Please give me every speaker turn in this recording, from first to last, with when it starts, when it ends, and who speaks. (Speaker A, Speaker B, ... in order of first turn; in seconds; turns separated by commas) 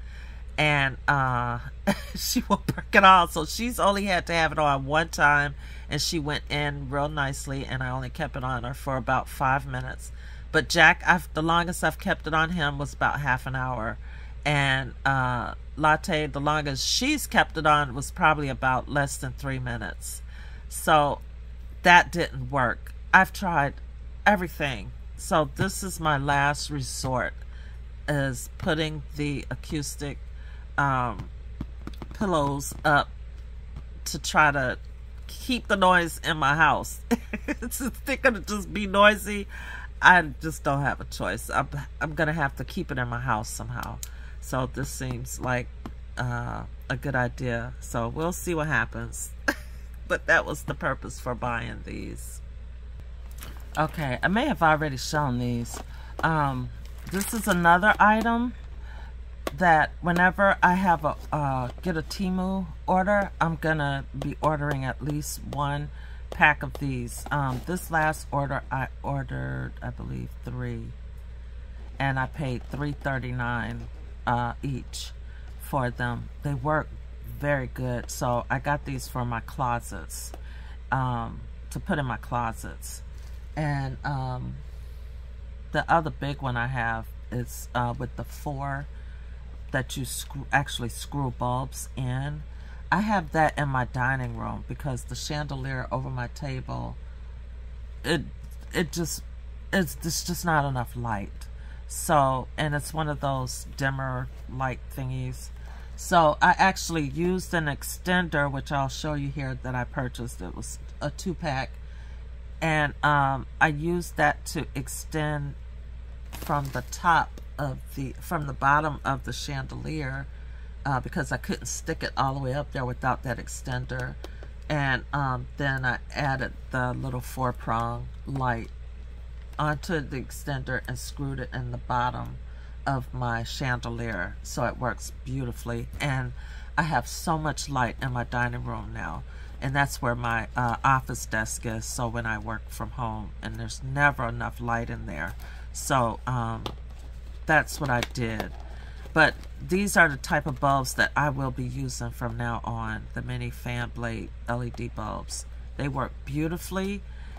Speaker A: 0.6-21.2, Speaker A: 21.8-27.4, Speaker A: 28.1-30.2, Speaker A: 30.8-31.3, Speaker A: 32.1-33.1, Speaker A: 34.0-39.5, Speaker A: 40.0-49.3, Speaker A: 50.0-52.4, Speaker A: 53.8-58.5, Speaker A: 59.5-71.0, Speaker A: 72.0-80.3, Speaker A: 80.9-83.0, Speaker A: 83.5-84.6, Speaker A: 85.7-88.9, Speaker A: 89.7-97.0, Speaker A: 98.0-111.8, Speaker A: 112.6-115.6, Speaker A: 116.4-120.3, Speaker A: 120.8-128.7, Speaker A: 129.6-146.8, Speaker A: 147.4-148.6, Speaker A: 149.1-157.0